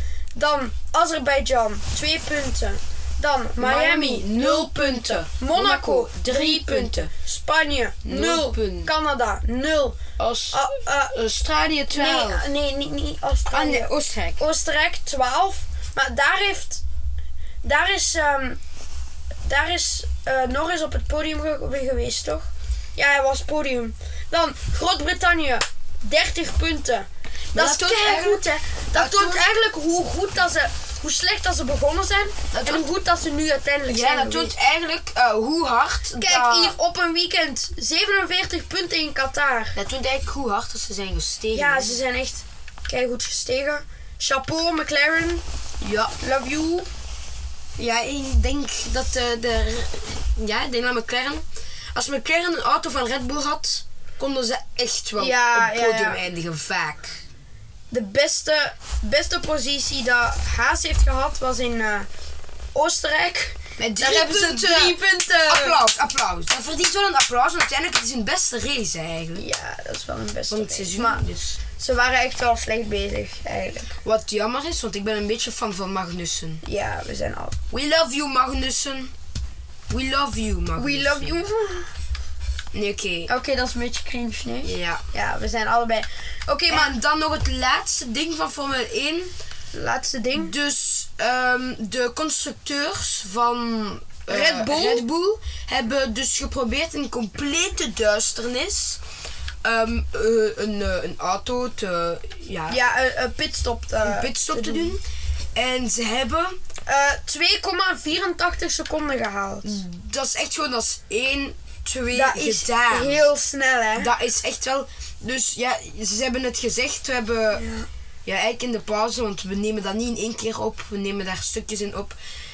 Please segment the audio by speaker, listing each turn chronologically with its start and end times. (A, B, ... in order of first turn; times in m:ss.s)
0:00.4-0:10.0 A
0:03.6-0:07.1 B
0:08.0-0:08.9 B
0:10.2-0:12.5 B
0:10.5-0:11.2 A
0:11.9-0:16.8 A
0:13.5-0:14.4 B
0:17.6-0:18.6 A
0:19.4-0:34.5 A
0:27.5-0:29.5 B
0:32.5-0:32.9 B
0:33.9-0:36.8 B
0:36.2-0:39.8 A
0:39.8-0:42.0 B
0:41.5-0:45.4 A
0:45.8-0:46.2 B
0:46.2-0:46.9 A
0:47.8-0:57.2 B
0:55.2-0:56.2 A
0:57.9-1:02.1 A
1:02.7-1:05.8 A
1:03.8-1:09.4 B
1:09.4-1:11.2 A
1:10.5-1:11.6 B
1:11.8-1:13.9 A
1:14.0-1:16.6 B
1:16.6-1:17.6 A
1:17.7-1:19.1 B
1:19.9-1:21.4 B
1:20.8-1:21.9 A
1:22.7-1:23.3 B
1:23.3-1:27.0 A
1:24.6-1:25.0 B
1:26.7-1:29.3 B
1:29.7-1:30.6 A
1:30.4-1:39.0 B
1:34.3-1:35.0 A
1:39.6-1:42.8 B
1:42.7-1:45.0 A
1:44.0-1:45.0 B
1:45.5-1:46.6 B
1:46.9-1:49.8 A
1:49.6-1:53.3 B
1:52.1-1:54.1 A
1:54.0-1:57.7 B
1:57.5-1:57.9 A
1:58.3-2:02.2 B